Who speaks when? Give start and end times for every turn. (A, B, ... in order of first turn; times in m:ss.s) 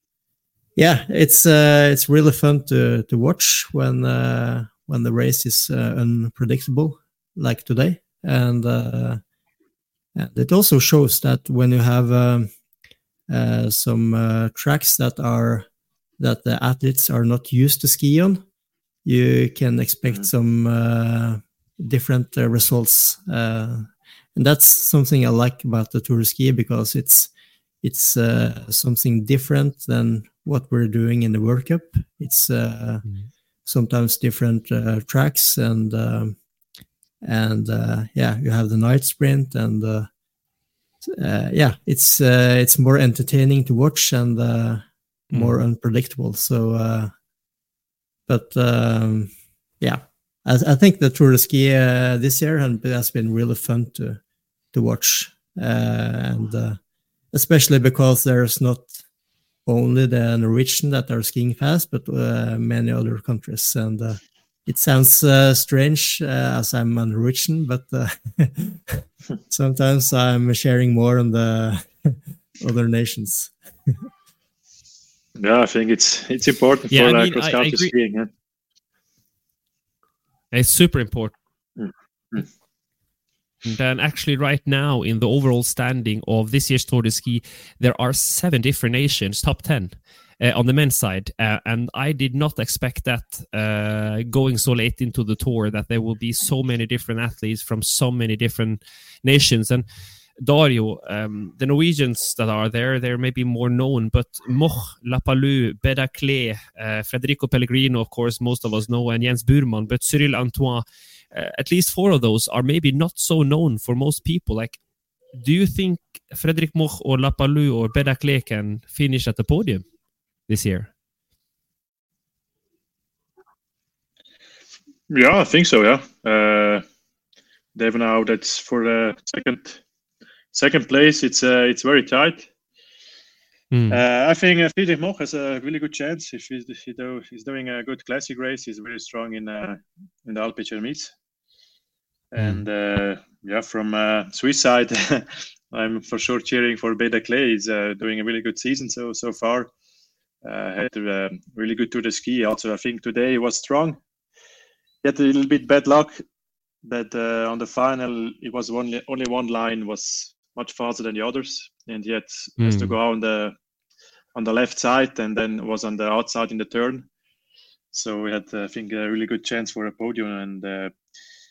0:00.8-0:09.2 A
0:10.1-0:12.5 A
0:13.3-0:15.7 A
0:16.2-0:18.4 A
0:19.0-0:27.3 A
0:27.8-0:33.0 A
0:33.6-0:36.4 A
0:37.2-0:40.1 A
0:41.0-0:47.1 A
0:45.3-0:45.6 B
0:48.3-0:54.2 A
0:54.7-0:56.8 A
0:57.3-0:58.9 A
0:59.6-1:14.0 A
1:15.4-1:18.3 C
1:16.9-1:17.9 B
1:20.5-1:21.3 B
1:21.8-1:22.5 C
1:23.6-1:39.8 B
1:40.4-1:54.8 B
1:55.3-1:59.8 B
2:00.5-2:00.9 B
2:05.1-2:06.8 C
2:07.7-2:09.8 C
2:10.5-2:12.5 C
2:13.7-2:14.0 B
2:13.9-2:21.1 C
2:22.3-2:29.7 C
2:22.4-2:22.6 B
2:30.4-2:34.0 C
2:35.0-2:36.2 C
2:36.8-2:43.5 C
2:42.6-2:42.9 B
2:44.3-2:47.1 C
2:47.9-2:50.9 C